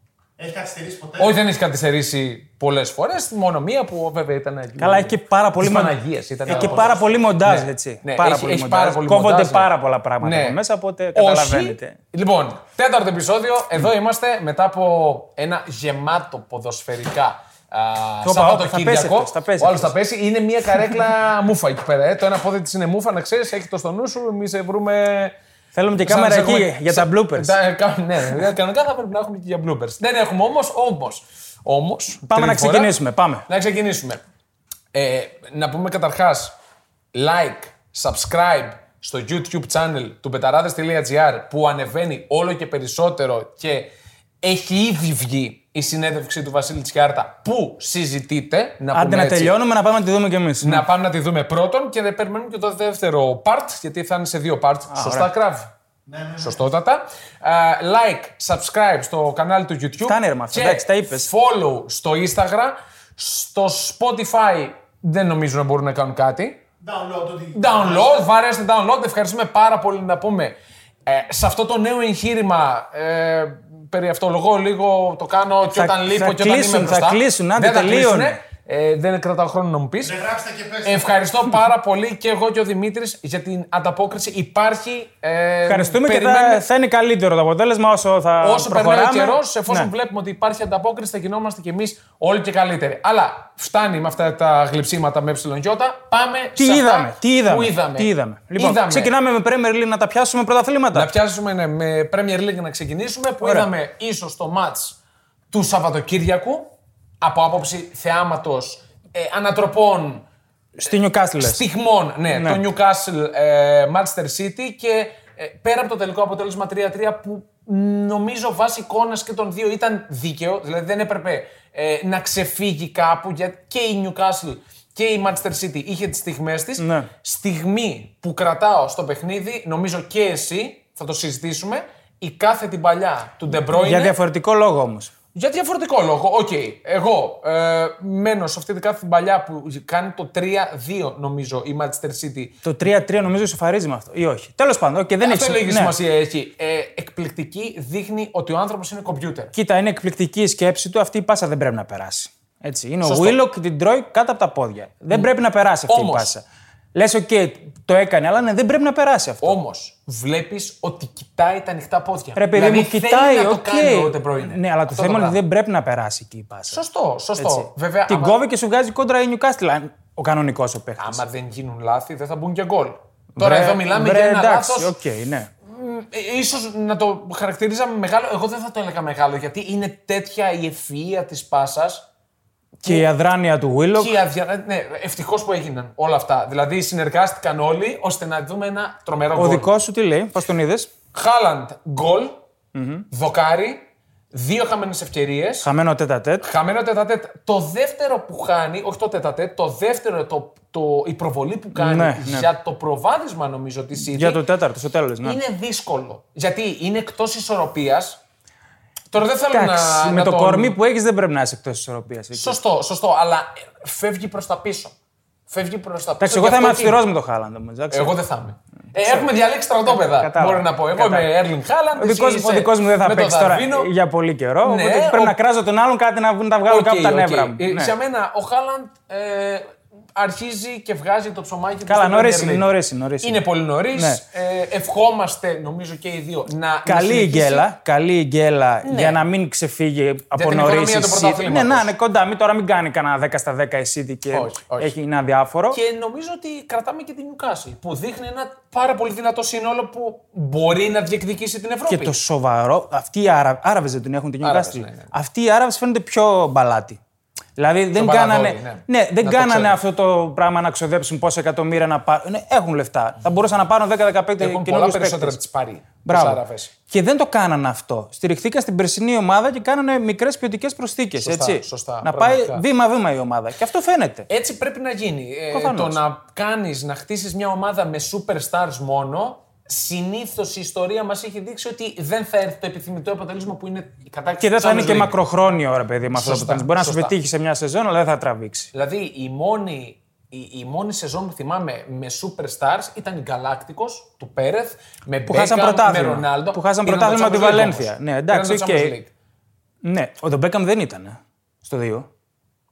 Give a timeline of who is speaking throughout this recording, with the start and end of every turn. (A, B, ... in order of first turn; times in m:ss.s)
0:00.4-0:01.4 A
0:01.2-0:09.7 B
0:04.8-0:12.0 C
0:10.2-0:10.6 B
0:11.1-0:25.3 B
0:18.2-0:19.9 C
0:25.7-0:27.5 C
0:26.0-0:32.9 B
0:32.3-0:33.4 C
0:33.5-0:34.2 B
0:34.9-0:36.5 B
0:37.1-0:49.5 B
0:48.9-0:50.8 C
0:50.6-0:55.7 B
0:54.9-0:55.3 C
0:56.1-0:56.6 A
0:56.4-1:06.6 B
1:00.0-1:01.3 C
1:06.8-1:08.0 A
1:07.5-1:10.5 B
1:11.0-1:20.2 B
1:15.7-1:18.4 C
1:20.0-1:21.1 A
1:20.8-1:26.6 B
1:25.6-1:29.9 C
1:28.4-1:39.1 B
1:36.6-1:41.1 C
1:40.9-1:45.0 B
1:43.4-1:43.7 C
1:45.5-1:50.2 B
1:50.8-1:51.6 C
1:51.4-2:14.1 B
1:52.3-1:52.6 C
2:06.8-2:07.1 C
2:13.7-2:15.1 C
2:15.3-2:22.6 B
2:22.6-2:25.9 C
2:25.2-2:29.5 B
2:29.5-2:39.6 C
2:33.0-2:33.4 B
2:35.9-2:36.3 B
2:39.4-2:45.4 B
2:42.3-2:46.8 C
2:46.7-2:48.4 B
2:47.4-2:51.2 C
2:51.0-2:54.9 B
2:53.4-2:55.5 C
2:55.6-3:02.0 B
3:02.8-3:03.1 B
3:02.8-3:04.1 C
3:03.9-3:09.7 B
3:09.4-3:10.9 C
3:11.1-3:12.4 B
3:12.7-3:13.0 C
3:13.1-3:15.7 B
3:15.6-3:16.4 C
3:16.4-3:24.4 B
3:21.7-3:22.5 C
3:24.0-3:25.4 C
3:25.2-3:28.2 B
3:29.1-3:30.8 B
3:29.5-3:32.6 C
3:32.3-3:34.9 B
3:35.5-3:37.0 B
3:36.2-3:38.2 C
3:37.9-3:43.9 B
3:39.0-3:39.3 C
3:39.8-3:41.3 C
3:42.0-3:47.9 C
3:44.6-3:45.4 B
3:46.7-3:52.7 B
3:51.9-3:53.4 C
3:53.2-3:57.7 B
3:54.0-3:54.2 C
3:56.8-4:05.8 C
3:58.8-3:59.2 B
4:00.3-4:01.9 B
4:04.3-4:04.9 B
4:05.7-4:12.1 B
4:11.9-4:17.0 C
4:14.4-4:15.1 B
4:17.6-4:25.4 C
4:17.9-4:19.7 B
4:24.4-4:26.7 B
4:26.0-4:34.3 C
4:31.2-4:32.6 B
4:34.3-4:45.2 B
4:35.5-4:36.0 C
4:44.4-4:48.7 C
4:46.1-4:47.1 B
4:48.7-4:59.1 B
4:55.3-4:58.9 C
4:59.8-5:02.1 C